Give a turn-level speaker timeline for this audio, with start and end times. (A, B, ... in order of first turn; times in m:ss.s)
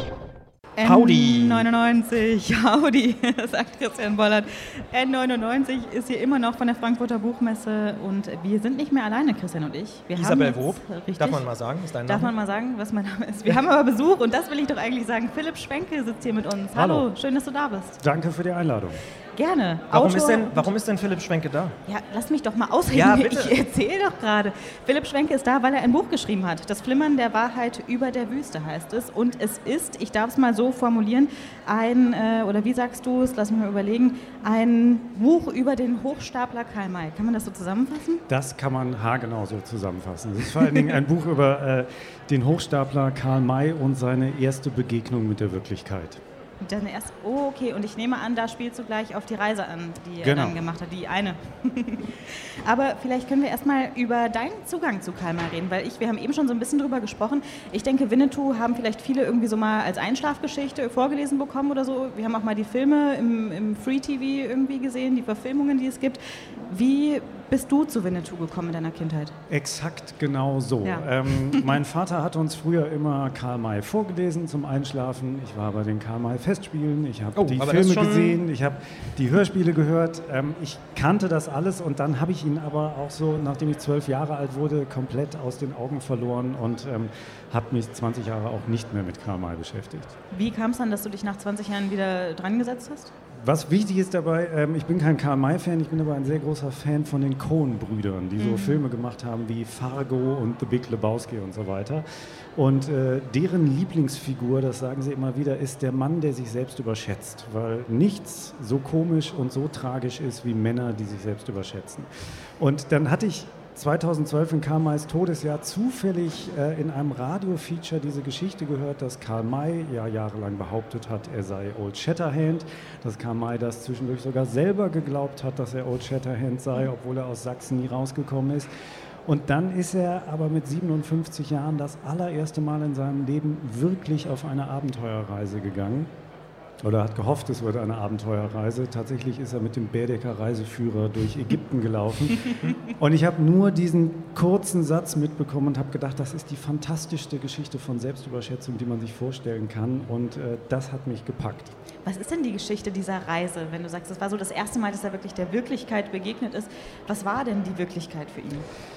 0:00.8-0:11.4 A
0:00.8-0:01.6 B
0:10.1-0:12.3 B
0:12.0-0:18.0 A
0:16.7-0:17.1 C
0:18.0-0:19.0 C
0:19.4-0:20.7 A
0:19.9-0:21.7 B
0:21.9-0:38.2 A
0:22.9-0:23.5 B
0:38.3-0:46.2 C
0:46.6-1:09.3 A
0:50.2-0:50.6 C
1:09.5-1:30.1 C
1:10.8-1:11.8 A
1:17.4-1:18.4 B
1:30.3-1:33.1 A
1:33.4-1:42.0 C
1:38.4-1:38.8 A
1:42.6-1:52.1 C
1:52.6-2:08.7 C
2:09.2-2:16.1 C
2:16.8-2:31.7 C
2:32.0-2:38.6 A